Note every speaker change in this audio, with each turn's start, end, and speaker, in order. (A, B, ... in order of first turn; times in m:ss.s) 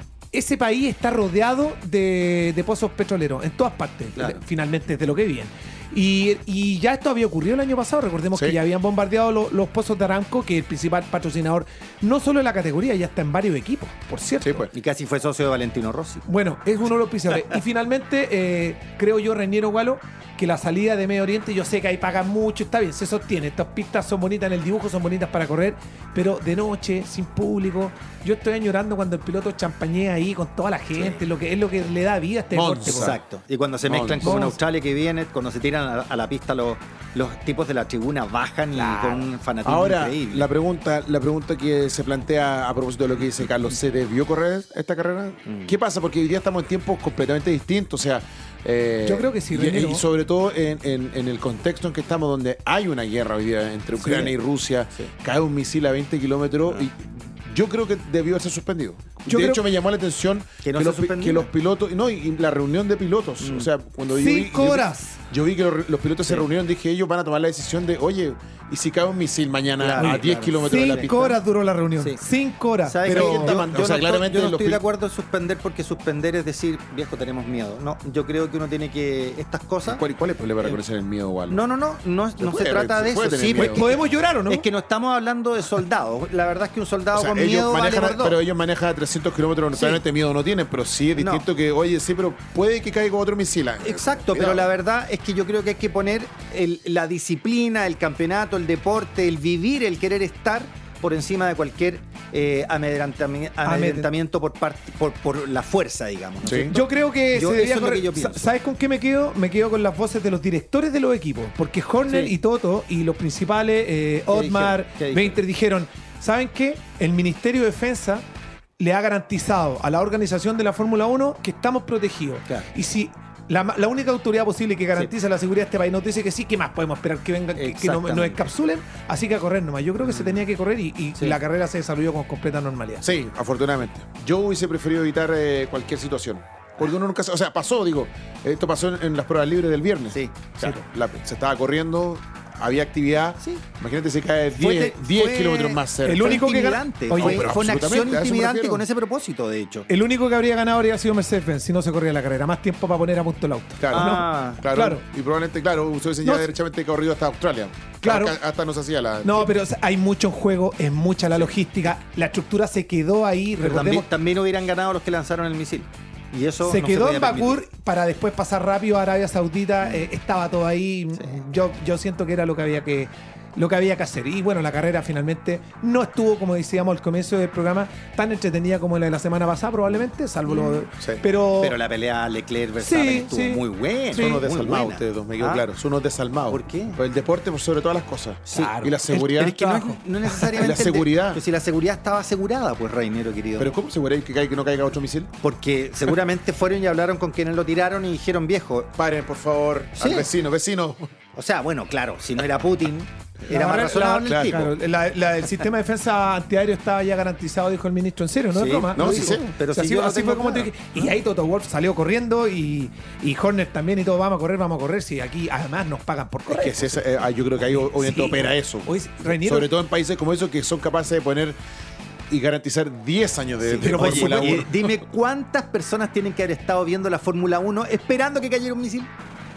0:00.3-0:14.6 A
0:14.4-0:14.7 B
0:14.7-0:16.2 C
0:16.2-0:33.1 A
0:30.9-0:31.2 C
0:32.5-0:33.2 B
0:32.9-0:40.5 C
0:33.8-0:34.3 B
0:34.2-0:34.6 A
0:38.7-0:39.3 A
0:39.6-1:11.4 B
0:45.4-0:45.7 C
0:49.0-0:50.0 A
0:54.0-0:54.3 A
0:59.3-0:59.6 A
1:00.6-1:01.5 C
1:03.4-1:03.7 C
1:04.1-1:05.2 A
1:09.8-1:11.4 C
1:10.0-1:13.6 A
1:12.0-1:12.2 C
1:12.8-1:20.0 C
1:13.0-1:14.8 B
1:19.8-1:21.6 B
1:21.5-1:24.0 C
1:22.4-1:23.9 B
1:23.6-1:24.6 A
1:24.5-1:28.4 C
1:27.1-1:34.7 B
1:29.7-1:30.0 C
1:31.2-1:31.4 C
1:33.8-1:48.4 C
1:43.6-1:44.1 A
1:46.4-1:46.8 B
1:46.6-1:58.2 A
1:52.1-1:52.3 C
1:54.3-1:55.4 C
1:58.8-2:13.0 A
2:07.5-2:08.4 C
2:10.0-2:10.4 C
2:13.0-2:26.5 B
2:24.6-2:29.9 C
2:26.0-2:27.6 A
2:27.1-2:28.8 B
2:29.9-2:35.0 A
2:33.8-2:39.5 B
2:33.9-2:34.6 C
2:36.2-2:36.5 A
2:38.0-2:38.4 A
2:39.2-2:44.0 A
2:43.6-2:47.6 C
2:46.6-3:01.8 A
2:49.8-2:50.1 C
2:51.2-2:51.4 C
3:00.4-3:00.8 C
3:01.0-3:01.2 B
3:01.6-3:05.6 C
3:02.8-3:04.4 A
3:04.1-3:09.6 B
3:06.5-3:07.0 C
3:08.5-3:13.7 C
3:08.5-3:10.6 A
3:10.6-3:11.4 B
3:13.6-3:15.3 B
3:15.4-3:18.9 C
3:19.0-3:21.1 B
3:20.0-3:20.3 C
3:21.4-3:24.7 C
3:23.5-3:37.0 A
3:24.2-3:24.7 B
3:28.5-3:31.1 C
3:28.9-3:29.5 B
3:36.5-3:41.6 B
3:37.6-3:39.7 A
3:42.3-3:45.0 B
3:43.6-3:49.1 C
3:43.8-3:44.7 A